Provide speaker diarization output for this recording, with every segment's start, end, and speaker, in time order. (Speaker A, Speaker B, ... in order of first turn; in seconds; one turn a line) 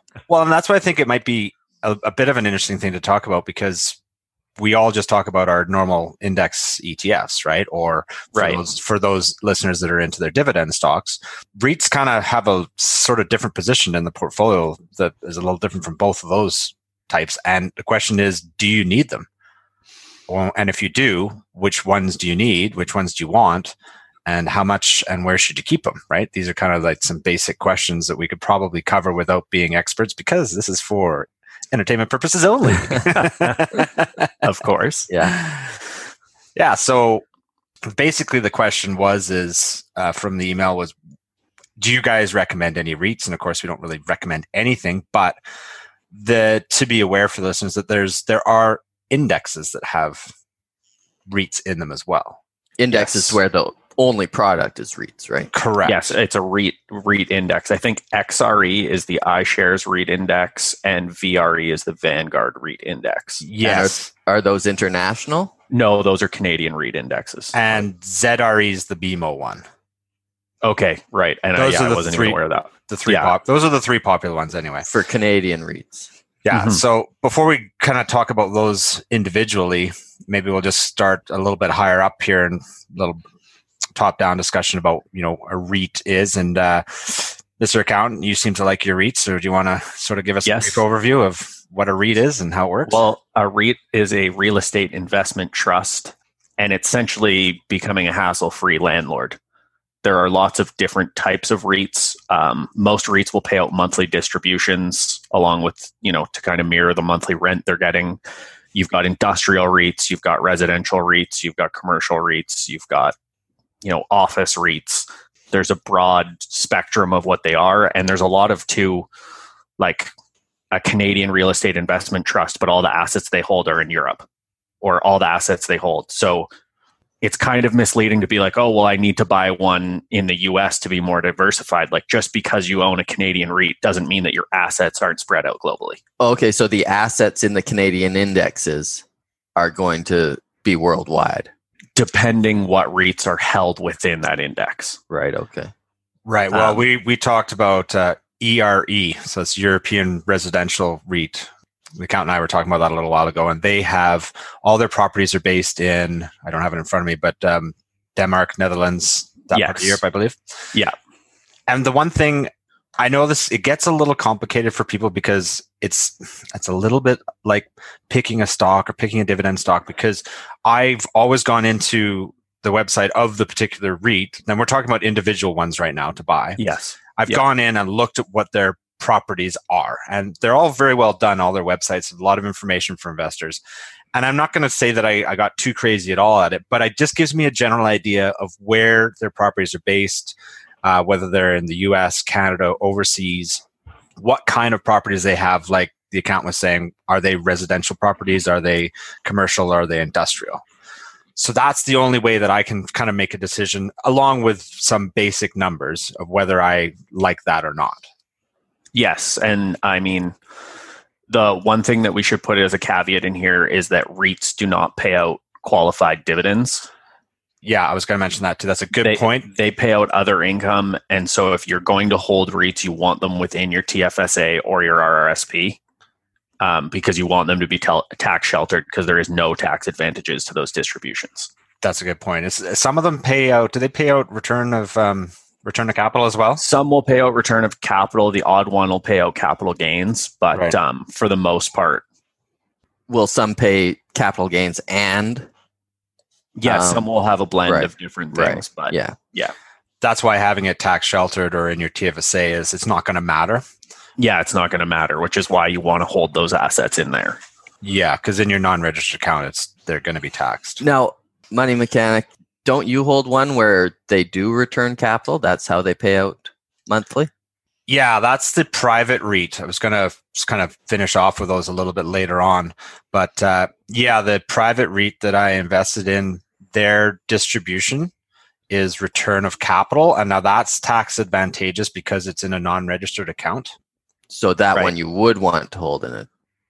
Speaker A: 0.3-4.0
Speaker A: 4.6-19.3
Speaker B: 8.3-8.6
Speaker A: 20.3-23.7
Speaker A: 24.2-34.3
Speaker B: 33.1-33.7
Speaker B: 34.4-35.1
Speaker C: 35.1-35.3
Speaker A: 35.2-35.8
Speaker A: 36.5-37.2
Speaker A: 37.9-40.9
Speaker A: 41.8-45.4
Speaker A: 46.1-50.3
Speaker A: 51.3-52.4
Speaker C: 52.8-55.5
Speaker A: 52.9-53.4
Speaker A: 55.5-56.1
Speaker B: 55.8-63.4
Speaker A: 63.4-64.1
Speaker C: 63.6-65.5
Speaker B: 65.7-67.8
Speaker A: 67.5-69.6
Speaker B: 70.6-73.3
Speaker A: 71.6-74.9
Speaker C: 74.9-76.1
Speaker A: 76.4-83.2
Speaker B: 76.5-76.8
Speaker A: 83.9-93.0
Speaker B: 90.4-90.8
Speaker B: 92.8-99.4
Speaker B: 100.0-108.2
Speaker B: 108.7-113.1
Speaker B: 113.8-119.1
Speaker B: 119.8-120.1
Speaker B: 120.7-124.2
Speaker B: 124.8-126.5
Speaker B: 127.2-136.0
Speaker C: 136.2-139.0
Speaker C: 139.6-141.5
Speaker B: 141.9-145.0
Speaker C: 145.1-145.7
Speaker A: 146.2-160.4
Speaker B: 146.5-146.8
Speaker B: 159.5-160.0
Speaker A: 161.7-176.6
Speaker B: 176.6-177.4
Speaker A: 177.2-183.6
Speaker A: 184.1-193.6
Speaker A: 194.2-200.6
Speaker A: 201.3-208.0
Speaker B: 208.9-210.3
Speaker B: 211.3-216.9
Speaker A: 217.6-219.5
Speaker B: 219.0-225.8
Speaker B: 226.6-231.5
Speaker A: 231.8-236.6
Speaker B: 236.6-242.0
Speaker C: 243.1-245.5
Speaker B: 246.6-249.5
Speaker C: 246.7-247.1
Speaker C: 247.7-249.2
Speaker A: 250.0-253.6
Speaker B: 254.2-257.4
Speaker A: 257.8-260.8
Speaker C: 260.8-267.3
Speaker A: 267.9-278.1
Speaker A: 278.7-283.7
Speaker C: 284.3-286.3